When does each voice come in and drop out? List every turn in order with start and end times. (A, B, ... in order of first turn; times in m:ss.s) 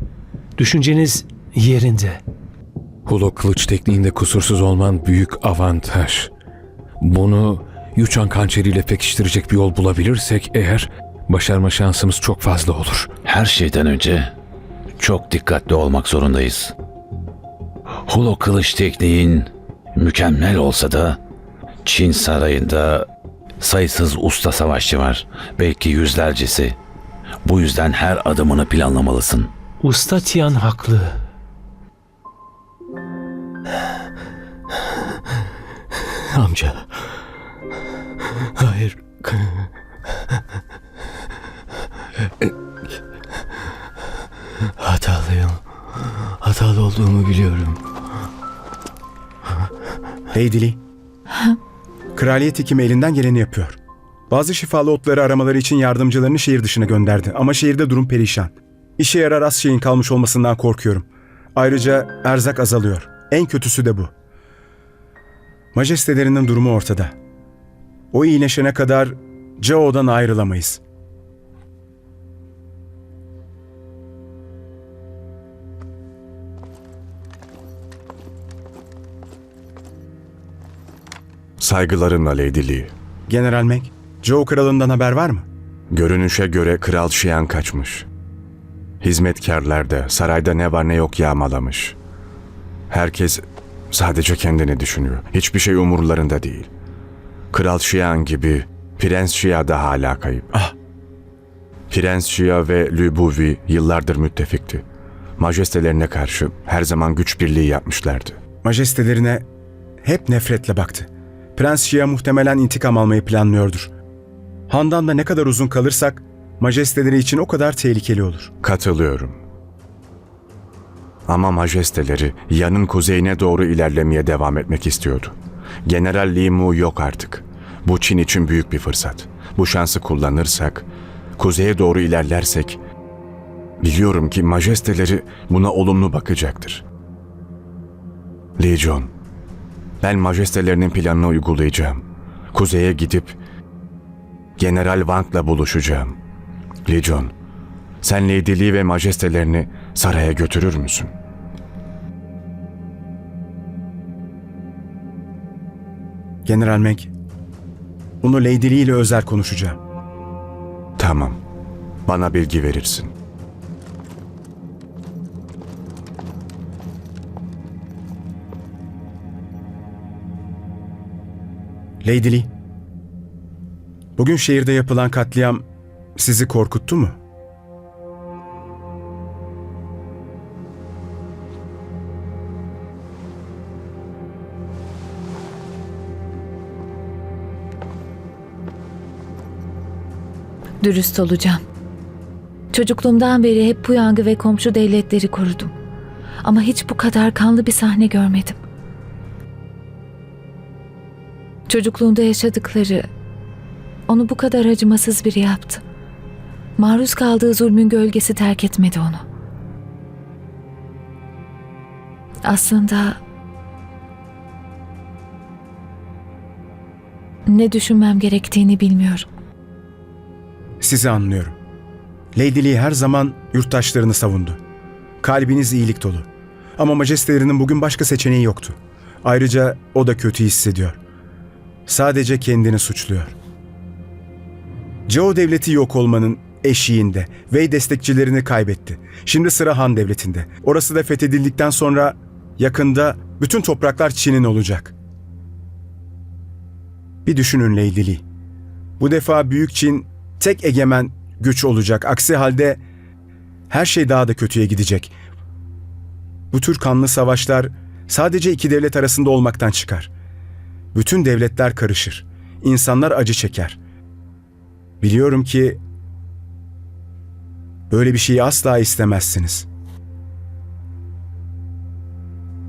0:00.6-0:02.2 A
0:03.1-0:06.3 B
0:07.0-0:13.1 B
0:13.2-0:14.3 C
0:15.0-0:16.7 C
0:18.1-0:21.2 C
0:21.8-0:23.1 C
0:23.6-0:26.8 C
0:27.4-0:29.5 C
0:29.8-0:31.2 A
0:36.3-0:36.9 D
0:38.6-0:39.7 D
0:44.8-0:45.6 D
0:46.4-0:47.8 D
0:50.3-0:50.8 E
0:52.2-0:53.8 E
0:54.3-1:04.1 E
1:05.8-1:07.1 E
1:08.1-1:10.8 E
1:21.6-1:22.9 F
1:23.3-1:25.5 E
1:25.9-1:28.1 F
1:29.0-1:32.0 F
1:32.9-1:36.7 F
1:37.5-1:40.5 F
1:41.9-1:44.8 F
1:45.4-1:48.4 F
1:48.6-1:49.4 E
1:50.0-1:53.9 E
1:54.7-1:58.6 E
1:58.6-1:59.4 F
2:01.3-2:10.9 F
2:11.4-2:12.8 F
2:13.8-2:16.8 F
2:18.6-2:19.1 F
2:20.0-2:23.4 F
2:24.6-2:26.2 F
2:26.9-2:27.3 F
2:28.0-2:31.1 F
2:36.5-2:37.1 E
2:38.2-2:39.8 E
2:41.0-2:41.4 F
2:42.1-2:43.1 F
2:52.0-2:52.5 E
2:54.2-2:55.6 E
2:56.2-2:57.2 E
3:10.8-3:11.6 G
3:12.7-3:15.7 G
3:16.4-3:18.6 G
3:21.7-3:23.1 G
3:24.1-3:25.8 G
3:26.8-3:29.2 G
3:32.5-3:33.2 G
3:37.5-3:39.3 G
3:40.8-3:41.6 E
3:42.4-3:44.6 E
3:45.2-3:51.0 E
3:51.9-3:53.3 E
3:55.1-4:04.9 E
4:07.3-4:08.2 E
4:09.0-4:12.8 E
4:13.7-4:15.1 E
4:16.5-4:20.1 E
4:21.0-4:23.8 E
4:25.0-4:25.8 E
4:27.9-4:29.7 E